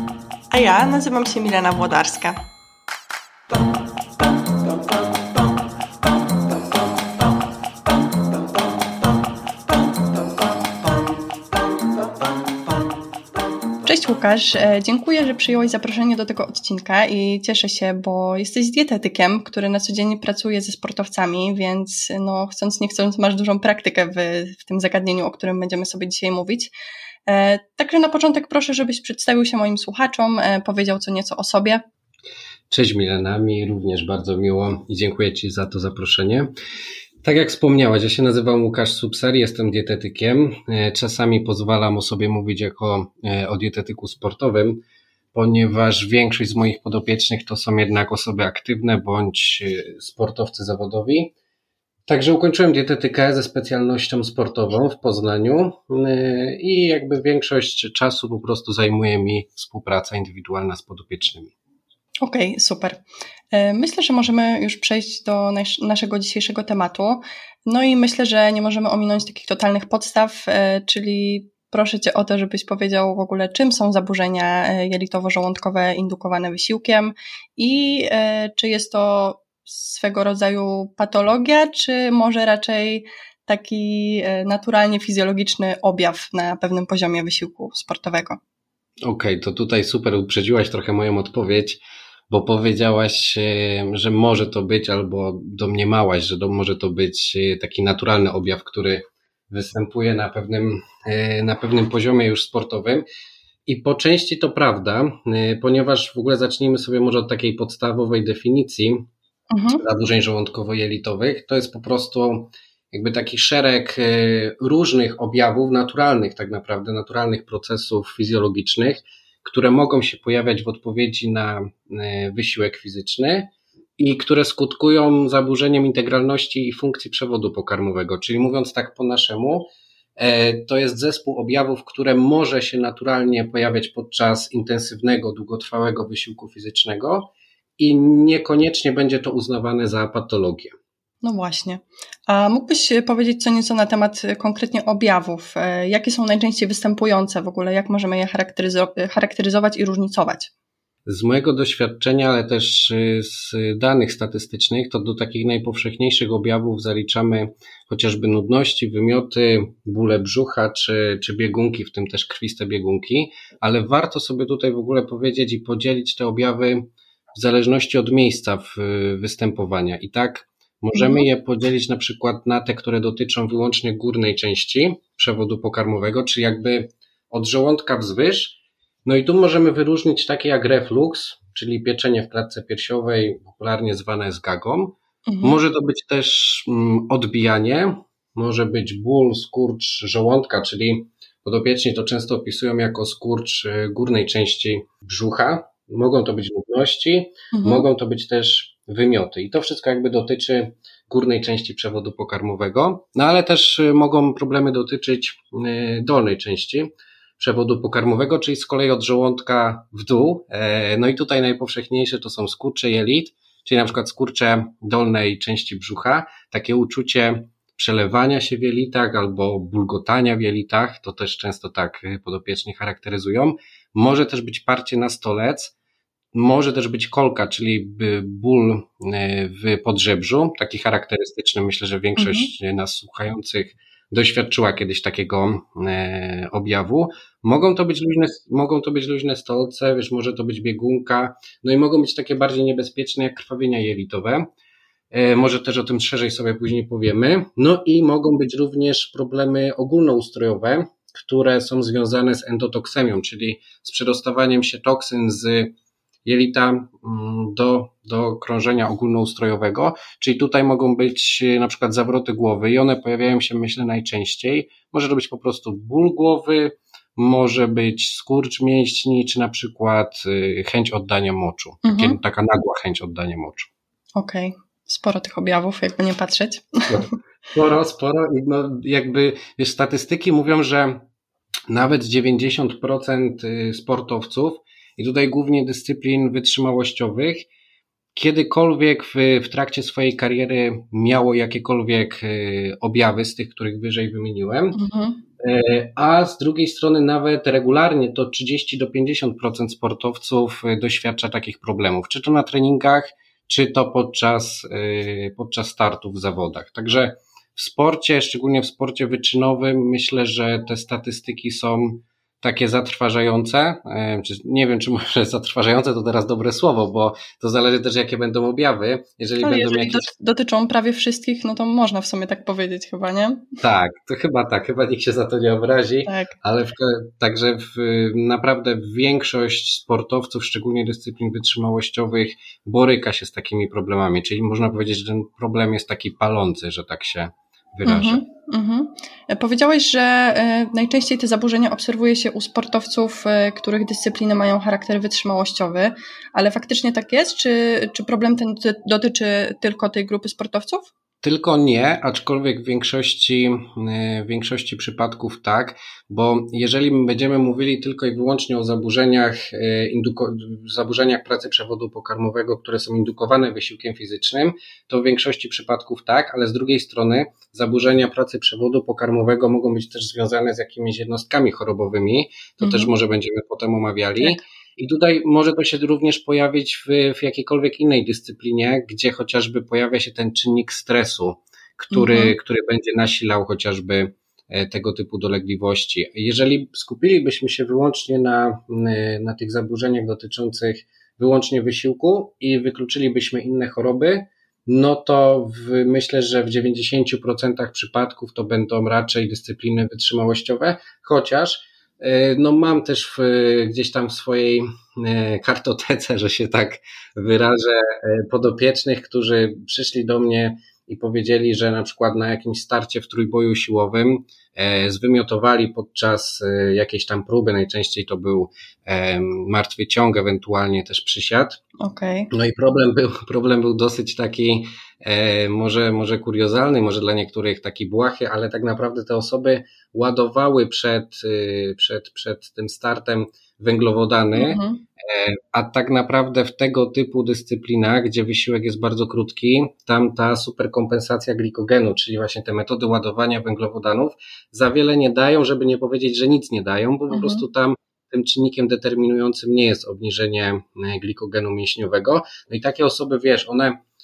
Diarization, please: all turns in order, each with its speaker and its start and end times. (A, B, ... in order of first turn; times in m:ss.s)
0:00.5-0:02.4 A
0:13.8-0:26.7 A
0:27.3-0:31.8 A
0:32.7-0:36.5 B
0:37.2-0:44.8 B
0:45.3-0:51.3 B
0:52.1-1:01.5 B
1:02.2-1:28.4 A
1:29.0-1:43.0 B
1:43.7-1:49.0 B
1:49.5-1:49.8 A
1:49.8-2:20.7 B
2:21.2-2:30.5 A
2:31.1-3:45.7 B
2:50.9-2:51.3 A
3:05.3-3:05.6 A
3:17.5-3:17.9 A
3:46.3-4:04.4 B
3:52.2-3:52.5 A
4:05.1-4:15.7 B
4:16.2-4:33.7 B
4:31.8-4:32.2 A
4:34.2-4:37.1 A
4:36.9-4:41.0 B
4:41.7-4:47.5 B
4:48.2-4:54.8 B
4:54.7-4:55.2 A
4:55.4-5:20.1 B
5:19.4-5:23.4 A
5:23.6-5:38.2 B
5:26.1-5:26.3 A
5:37.8-5:50.9 A
5:51.2-7:01.6 B
6:12.6-6:12.9 A
6:21.9-6:22.3 A
7:01.8-7:02.3 A
7:02.3-7:33.8 B
7:14.3-7:14.8 A
7:27.1-7:27.4 A